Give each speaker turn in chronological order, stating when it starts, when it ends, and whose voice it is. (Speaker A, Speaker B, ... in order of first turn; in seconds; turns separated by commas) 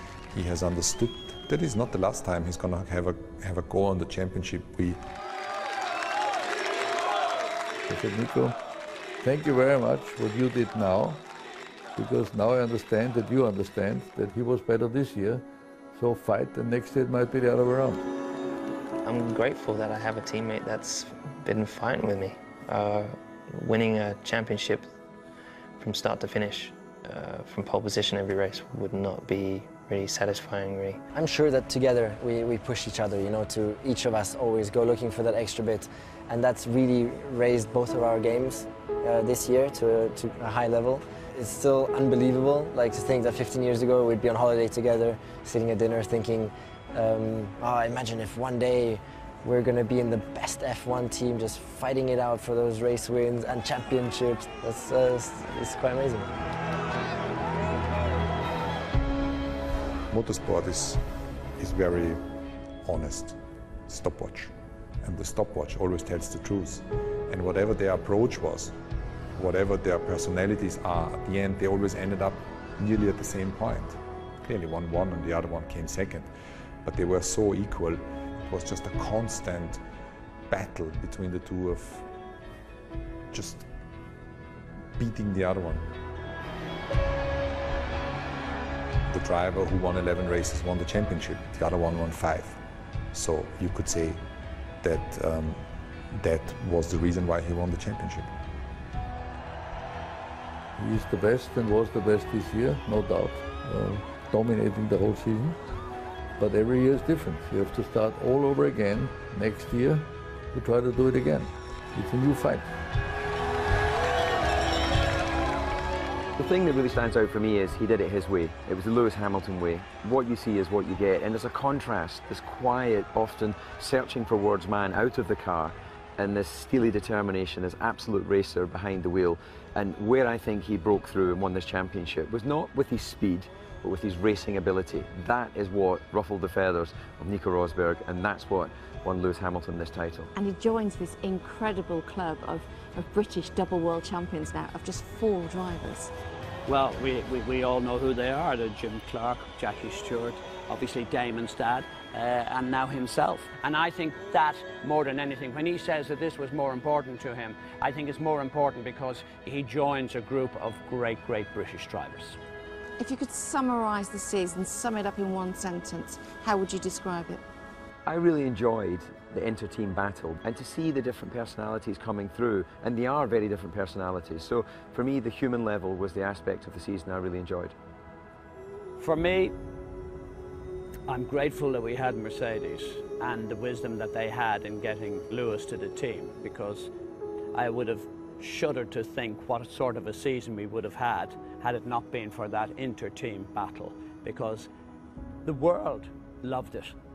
Speaker A: 0.3-5.0, Speaker B: 7.9-8.6, Speaker B: 9.2-11.2, Speaker B: 11.9-18.0, Speaker C: 19.0-24.9, Speaker C: 25.8-31.0, Speaker D: 31.1-56.3, Speaker A: 60.1-61.0, Speaker A: 61.6-62.2, Speaker A: 62.8-63.4, Speaker A: 63.9-68.7, Speaker A: 69.3-76.3, Speaker A: 76.8-79.8, Speaker A: 80.5-82.1, Speaker A: 83.3-83.7, Speaker A: 85.0-85.8, Speaker A: 89.1-92.6, Speaker A: 93.1-94.2, Speaker A: 94.8-98.3, Speaker B: 100.8-105.6, Speaker B: 106.4-112.7, Speaker E: 116.4-140.3, Speaker F: 140.3-146.1, Speaker G: 146.7-162.4, Speaker F: 163.0-167.4, Speaker E: 168.1-177.7, Speaker G: 179.0-179.5, Speaker G: 181.1-186.9, Speaker G: 187.5-194.7, Speaker G: 195.4-196.9